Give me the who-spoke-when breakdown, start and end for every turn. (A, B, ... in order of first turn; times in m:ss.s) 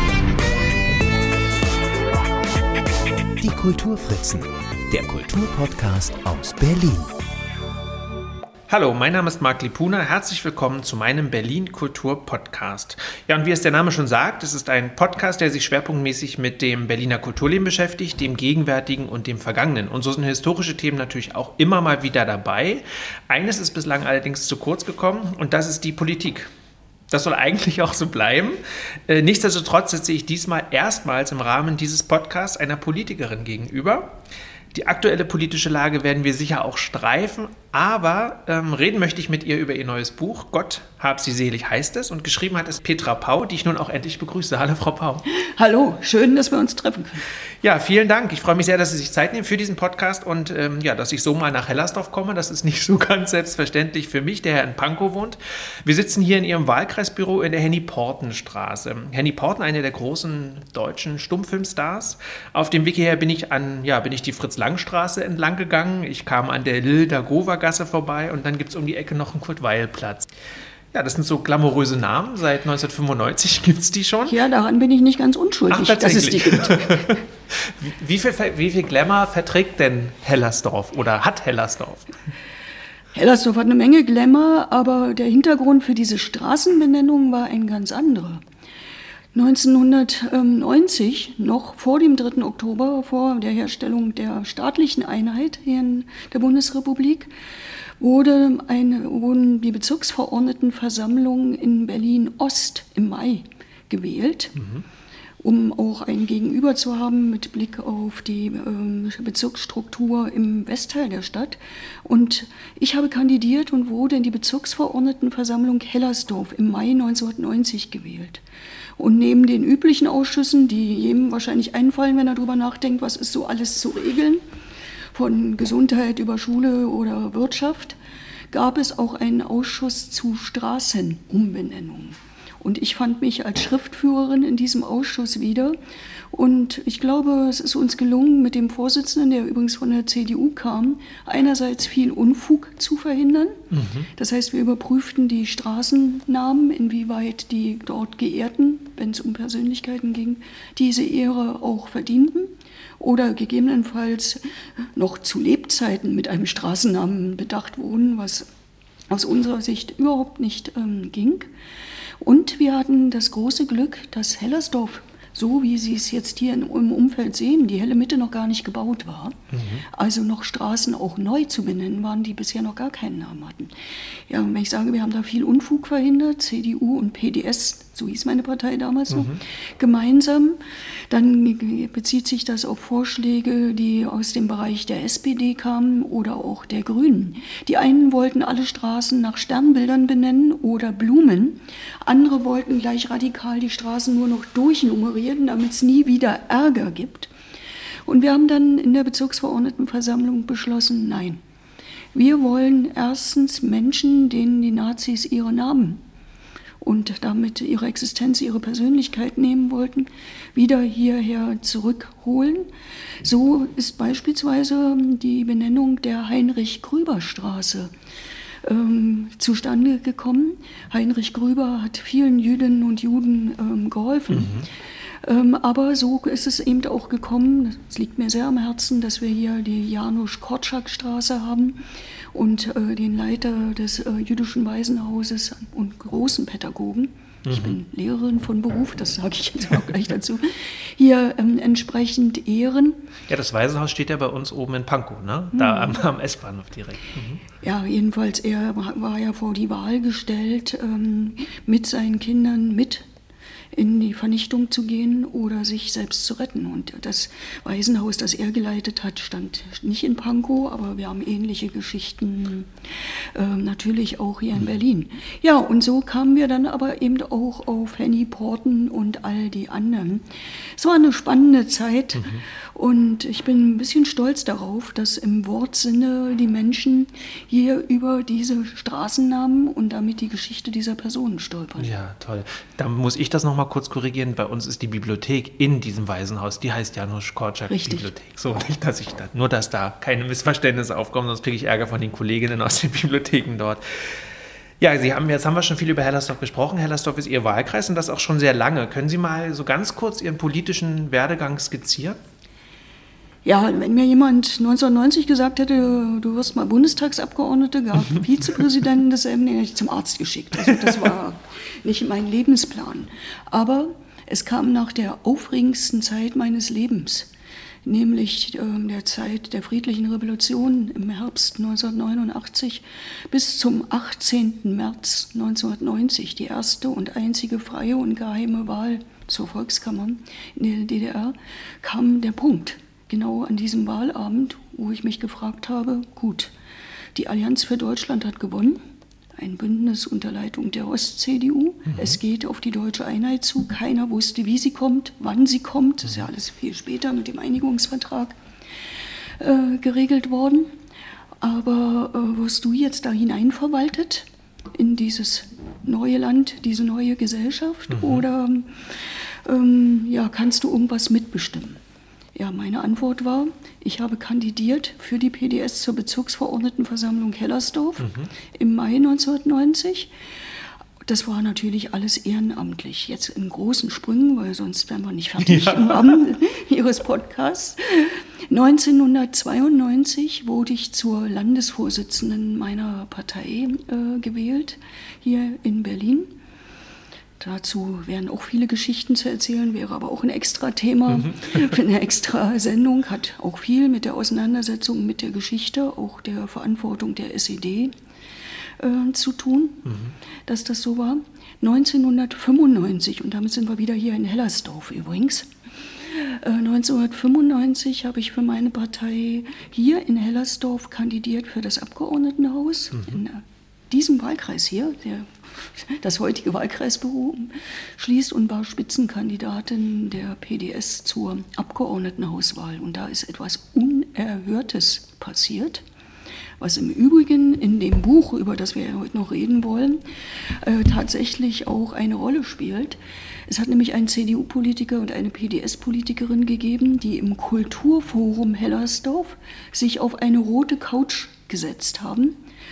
0:03.4-0:07.1 A
0:08.7-0:26.5 B
0:27.1-0:34.2 B
0:34.7-0:45.2 B
0:45.3-0:47.3 C
0:47.6-1:10.3 B
1:10.9-1:14.4 B
1:14.3-1:17.2 C
1:15.7-1:22.1 B
1:23.1-1:28.4 C
1:29.3-1:37.3 C
1:38.0-1:44.6 C
1:44.6-1:44.8 B
1:45.4-1:58.4 C
1:59.0-2:04.4 C
2:05.1-2:08.0 C
2:08.5-2:15.8 C
2:16.3-2:23.6 C
2:23.7-2:24.1 B
2:24.1-2:34.4 C
2:34.9-2:38.5 C
2:39.1-2:41.5 C
2:42.2-2:53.7 C
2:49.5-2:49.8 B
2:54.3-3:17.3 C
2:59.1-2:59.4 B
3:18.0-3:21.4 C
3:22.1-3:26.0 C
3:26.8-3:32.7 C
3:33.2-3:37.9 C
3:38.6-3:44.5 C
3:44.3-3:44.7 B
3:45.2-4:03.0 C
3:57.4-3:57.8 B
4:03.3-4:07.4 B
4:05.5-4:06.0 C
4:07.6-4:13.0 C
4:13.7-4:41.9 C
4:32.2-4:32.4 B
4:41.8-5:02.2 B
4:47.7-4:48.1 C
5:03.4-5:17.3 C
5:17.8-5:36.5 C
5:37.1-5:38.8 C
5:39.4-5:48.3 C
5:41.9-5:42.1 B
5:49.4-5:50.7 C
5:51.4-6:01.8 C
5:57.9-5:58.2 B
6:02.4-6:10.1 C
6:08.0-6:08.3 B
6:11.0-6:26.3 C
6:15.4-6:16.2 B
6:27.4-6:37.9 C
6:31.1-6:31.7 B
6:38.8-6:39.8 C
6:39.8-6:40.1 B
6:40.4-6:45.5 C
6:46.0-7:05.8 C
7:06.6-7:22.4 C